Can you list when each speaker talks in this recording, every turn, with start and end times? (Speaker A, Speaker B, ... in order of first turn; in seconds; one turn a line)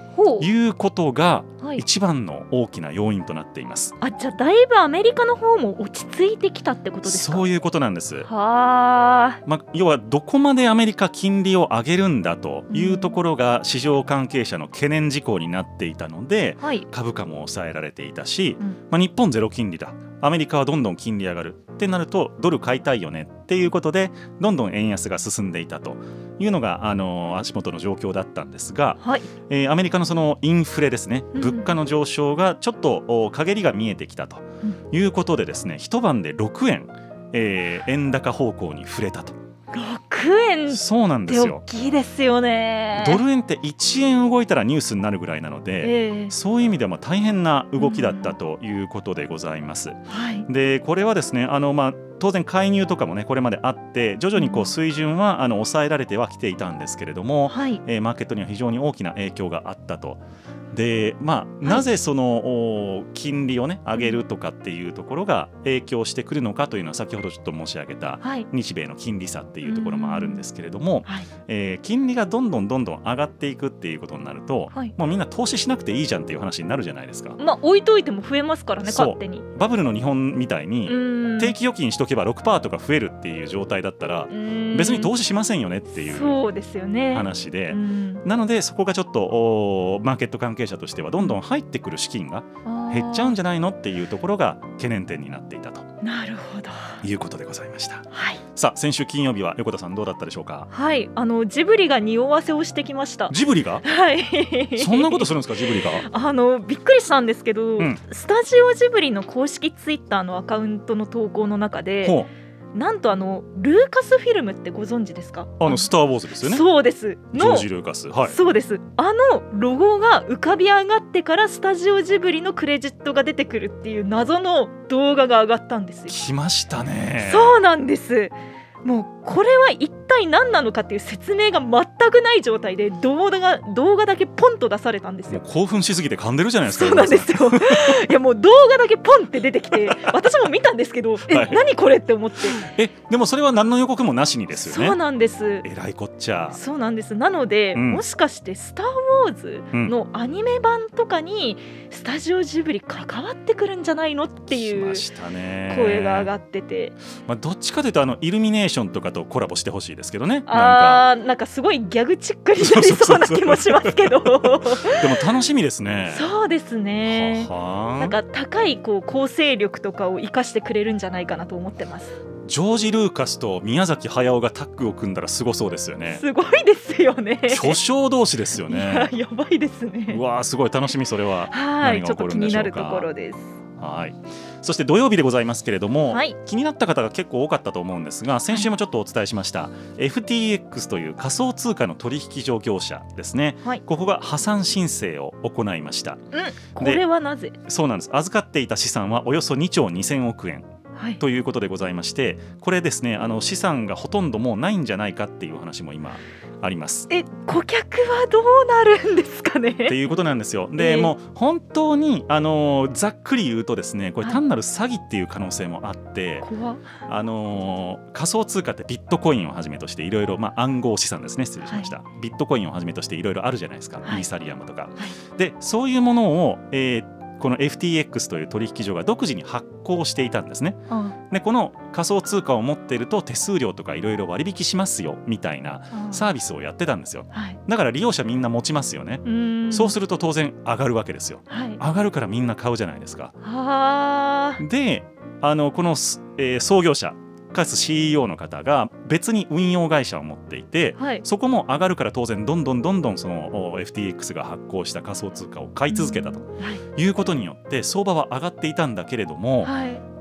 Speaker A: 0.1-0.5
Speaker B: 0.4-4.0
Speaker A: 4.0-7.5
Speaker B: 7.0-8.3
Speaker A: 8.3-9.4
Speaker B: 9.5-39.4
Speaker A: 12.7-13.2
Speaker A: 16.6-16.9
Speaker A: 29.0-29.3
Speaker A: 31.4-31.7
Speaker A: 39.7-43.2
Speaker B: 40.7-41.6
Speaker B: 43.0-60.2
Speaker A: 45.8-46.3
Speaker A: 47.8-48.4
Speaker A: 50.1-50.5
Speaker A: 54.4-54.7
Speaker A: 57.5-57.8
Speaker B: 60.7-77.4
Speaker A: 68.2-68.5
Speaker A: 69.6-70.4
Speaker A: 77.4-79.5
Speaker B: 78.8-86.4
Speaker A: 80.9-81.5
Speaker A: 84.3-85.1
Speaker A: 85.9-88.2
Speaker B: 87.1-95.9
Speaker A: 92.7-93.4
Speaker A: 96.0-97.0
Speaker B: 97.0-100.7
Speaker A: 98.1-98.4
Speaker A: 100.7-112.2
Speaker B: 103.3-103.8
Speaker B: 104.8-106.1
Speaker B: 112.0-112.3
Speaker A: 112.7-115.9
Speaker B: 115.6-116.7
Speaker A: 116.4-117.7
Speaker B: 117.3-118.4
Speaker A: 118.3-126.2
Speaker B: 126.1-127.6
Speaker A: 127.2-135.4
Speaker B: 135.3-138.1
Speaker A: 136.7-142.6
Speaker B: 139.8-140.1
Speaker B: 141.2-141.6
Speaker B: 142.5-145.0
Speaker A: 144.6-145.7
Speaker B: 145.6-146.6
Speaker A: 146.5-155.0
Speaker B: 147.7-148.0
Speaker B: 154.5-156.3
Speaker A: 155.7-157.0
Speaker B: 157.3-161.1
Speaker A: 160.5-165.2
Speaker B: 162.6-166.3
Speaker A: 166.1-172.2
Speaker B: 167.1-168.2
Speaker B: 172.4-176.2
Speaker A: 176.1-177.8
Speaker B: 177.5-179.1
Speaker A: 178.6-180.2
Speaker B: 180.1-183.1
Speaker A: 181.5-183.6
Speaker B: 183.8-196.2
Speaker A: 186.1-186.4
Speaker A: 196.3-197.6
Speaker B: 197.7-207.1
Speaker A: 200.9-201.2
Speaker A: 207.1-210.0
Speaker B: 209.9-216.5
Speaker A: 210.8-211.1
Speaker A: 216.4-216.9
Speaker B: 217.1-243.3
Speaker A: 221.7-221.9
Speaker A: 230.9-231.2
Speaker A: 235.9-236.3
Speaker A: 237.3-237.6
Speaker A: 239.2-239.9
Speaker A: 241.5-241.8
Speaker A: 243.4-244.6
Speaker B: 244.6-259.7
Speaker A: 251.0-251.2
Speaker A: 255.9-256.8
Speaker A: 259.6-260.0